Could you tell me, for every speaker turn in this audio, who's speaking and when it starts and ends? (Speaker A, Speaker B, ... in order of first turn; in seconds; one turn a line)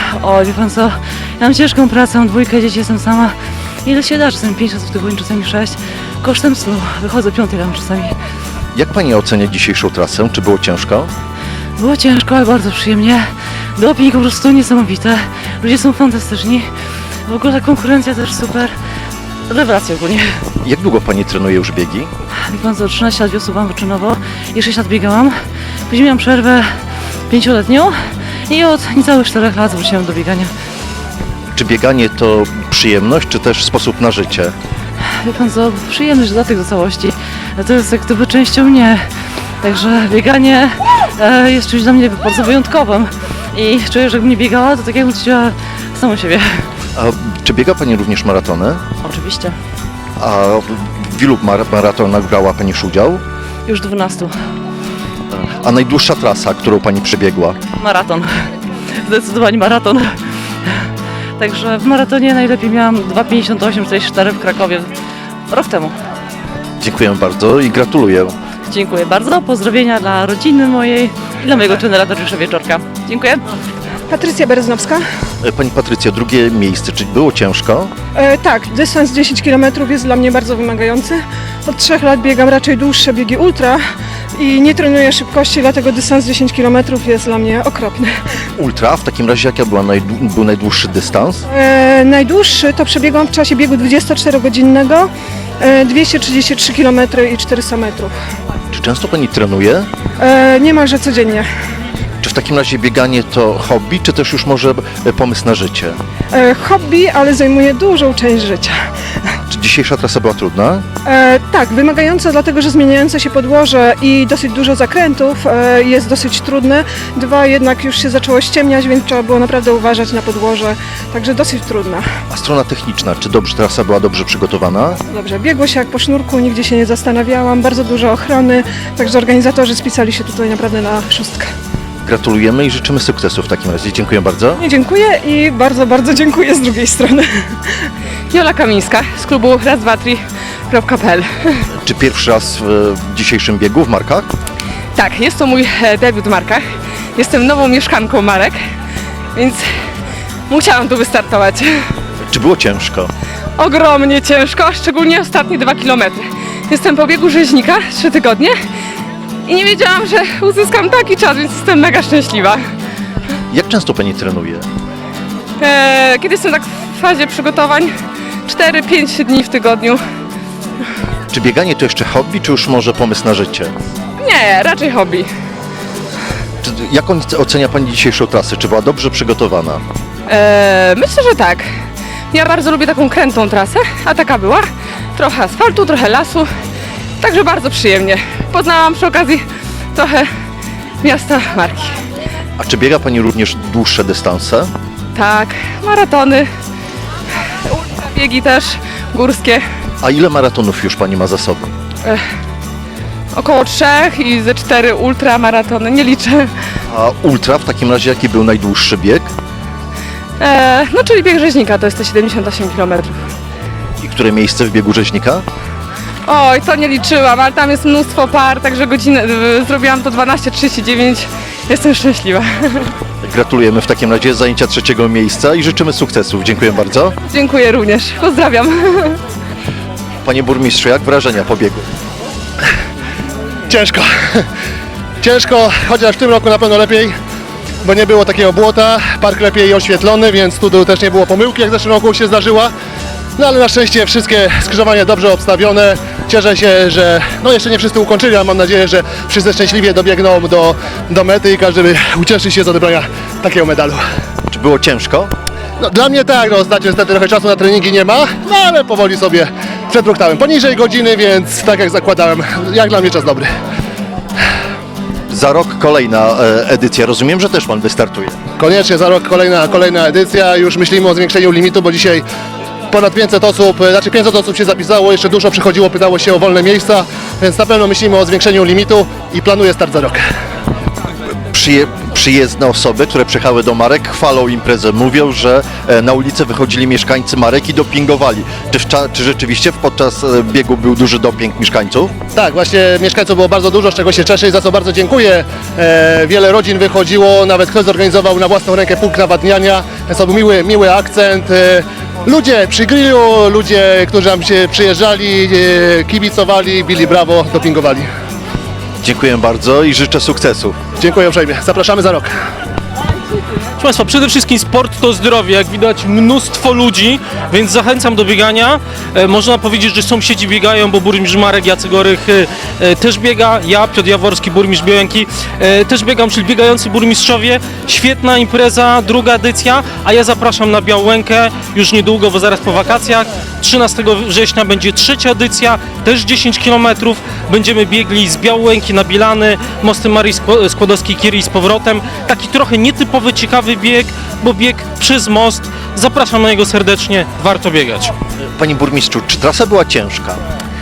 Speaker A: 0.1-8.2
Speaker B: 8.7-11.1
Speaker A: 11.8-16.7
Speaker A: 17.2-18.7
Speaker A: 19.5-20.4
Speaker B: 20.6-22.1
Speaker A: 22.4-25.4
Speaker A: 25.9-26.7
Speaker A: 27.3-30.5
Speaker B: 31.5-34.5
Speaker A: 35.2-39.1
Speaker A: 39.6-46.7
Speaker B: 46.9-48.8
Speaker A: 49.0-49.5
Speaker B: 50.2-53.2
Speaker A: 53.6-54.4
Speaker B: 55.3-57.6
Speaker A: 57.8-58.4
Speaker A: 59.0-60.2
Speaker A: 61.4-64.9
Speaker A: 65.5-65.9
Speaker B: 66.8-68.3
Speaker A: 68.7-73.4
Speaker C: 74.1-75.0
Speaker B: 75.4-77.9
Speaker C: 78.1-83.8
Speaker C: 84.4-88.1
Speaker B: 88.6-91.4
Speaker C: 91.5-95.1
Speaker C: 95.6-98.1
Speaker B: 98.7-99.9
Speaker C: 100.2-101.4
Speaker B: 102.2-106.0
Speaker C: 106.3-108.7
Speaker B: 109.5-110.8
Speaker C: 111.0-122.0
Speaker B: 122.3-125.0
Speaker C: 125.1-131.5
Speaker B: 132.0-134.6
Speaker C: 134.6-137.6
Speaker D: 138.3-141.6
Speaker B: 141.8-144.3
Speaker D: 144.9-148.6
Speaker D: 149.3-149.6
Speaker D: 150.5-151.8
Speaker B: 152.3-153.1
Speaker D: 153.6-158.5
Speaker D: 159.4-162.6
Speaker B: 163.5-164.7
Speaker D: 165.6-170.0
Speaker B: 171.3-173.7
Speaker D: 174.2-175.3
Speaker B: 176.6-179.8
Speaker D: 180.3-181.7
Speaker D: 182.3-186.5
Speaker D: 187.2-190.3
Speaker D: 191.0-192.0
Speaker B: 192.6-194.7
Speaker D: 195.1-196.5
Speaker D: 197.7-199.7
Speaker B: 200.0-201.7
Speaker D: 203.3-206.5
Speaker B: 206.9-209.3
Speaker D: 210.4-213.2
Speaker B: 214.0-215.4
Speaker D: 216.2-222.9
Speaker B: 223.2-227.2
Speaker D: 227.2-229.2
Speaker B: 230.2-231.8
Speaker E: 233.7-234.4
Speaker E: 235.2-237.1
Speaker E: 237.8-242.7
Speaker E: 243.4-254.0
Speaker B: 254.5-255.3
Speaker E: 255.8-263.5
Speaker B: 265.3-268.4
Speaker E: 268.6-272.2
Speaker E: 272.9-280.2
Speaker B: 281.5-292.1
Speaker E: 292.3-308.1
Speaker B: 309.0-310.8
Speaker E: 311.0-312.3
Speaker F: 313.8-348.1
Speaker B: 348.5-350.4